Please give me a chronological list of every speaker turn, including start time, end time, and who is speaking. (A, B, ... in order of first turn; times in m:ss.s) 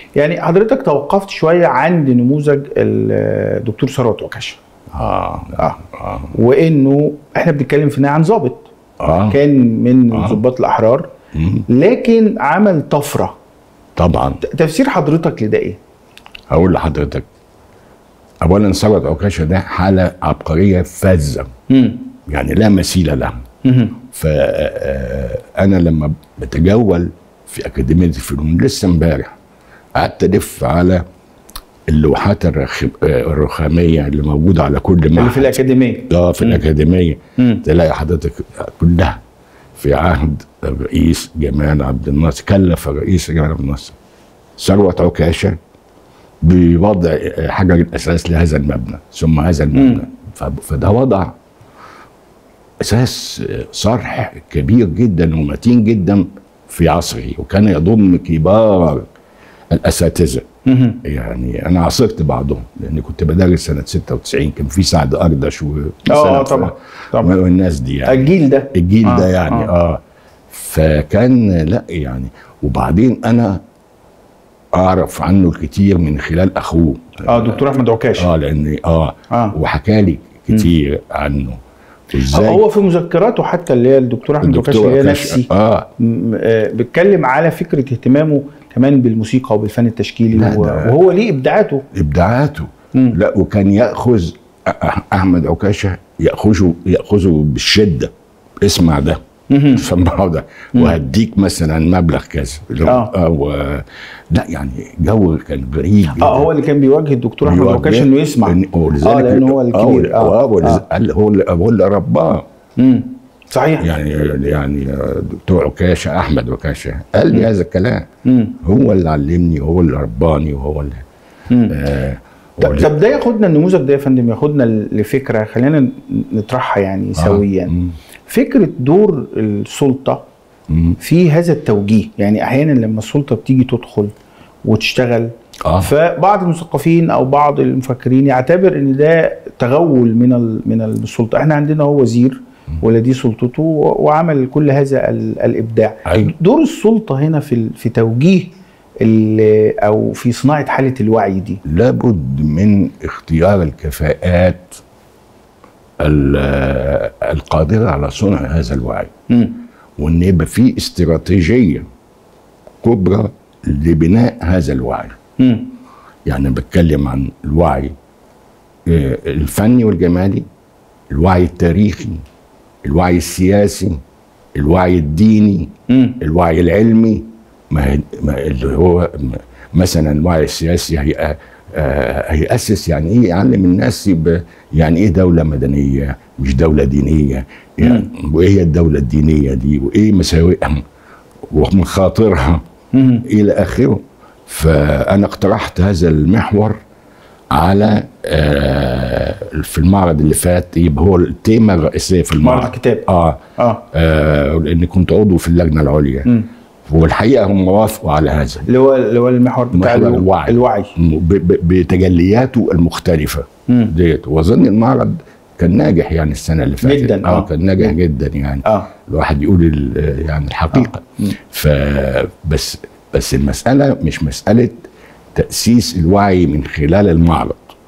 0:00.2-0:04.6 A
0:04.9-0:06.3 B
0:06.3-0:08.7 A
0:09.0-0:09.4 B
0:09.3-0:11.1 A
0:10.1-0:10.4 B
0:11.3-0:11.7 B
0:11.7-0:13.4 A
0:14.0-0:14.4 B
0:14.4-0:15.8 A
0:16.5-0:17.3 B
0:18.4-0:21.5 B
0:21.7-0:22.1 A
0:22.3-0:23.4 B
0:23.6-0:24.0 A
0:24.1-0:29.4 B
0:30.0-0:31.0 B
0:31.9-0:39.2 B
0:35.2-0:36.6 A
0:37.4-0:37.6 A
0:39.8-0:44.0 B
0:44.6-0:45.6 B
0:46.4-0:51.4 B
0:49.7-0:50.1 A
0:52.8-0:59.1 B
0:59.7-1:00.4 B
1:00.7-1:01.0 A
1:01.0-1:10.0 B
1:06.1-1:07.3 A
1:08.1-1:09.7 A
1:10.5-1:13.6 B
1:14.8-1:17.6 B
1:17.3-1:18.3 A
1:18.2-1:21.6 B
1:22.1-1:22.6 B
1:22.2-1:25.5 A
1:24.4-1:25.9 B
1:26.0-1:31.8 A
1:30.3-1:31.0 B
1:31.9-1:38.1 B
1:38.6-1:39.2 B
1:39.5-1:39.9 A
1:39.7-1:46.5 B
1:42.8-1:43.1 A
1:46.2-1:50.8 A
1:47.4-1:52.4 B
1:52.8-1:53.9 A
1:53.8-1:58.1 B
1:58.2-1:58.6 A
1:58.6-2:01.0 B
2:01.5-2:01.8 A
2:01.7-2:03.0 B
2:02.6-2:07.7 A
2:07.2-2:08.0 B
2:08.3-2:10.2 A
2:10.7-2:11.0 B
2:11.0-2:14.1 A
2:14.6-2:31.6 A
2:15.7-2:15.9 B
2:26.1-2:26.3 B
2:31.6-2:34.8 B
2:36.0-2:39.1 B
2:39.3-2:39.6 A
2:40.0-2:41.8 B
2:42.8-2:45.2 B
2:45.4-2:45.7 A
2:46.3-2:47.9 B
2:48.9-2:50.4 B
2:51.1-2:52.2 B
2:52.8-2:54.0 B
2:54.6-3:10.8 B
2:55.9-2:56.2 A
3:07.8-3:08.1 A
3:11.5-3:12.6 B
3:12.9-3:13.2 A
3:13.3-3:16.8 B
3:17.5-3:23.4 B
3:22.4-3:23.1 A
3:23.6-3:23.8 A
3:23.9-3:26.3 B
3:26.9-3:28.7 B
3:28.7-3:31.0 A
3:29.7-3:44.8 B
3:33.7-3:33.9 A
3:36.8-3:37.9 A
3:40.7-3:41.3 A
3:45.4-3:47.7 B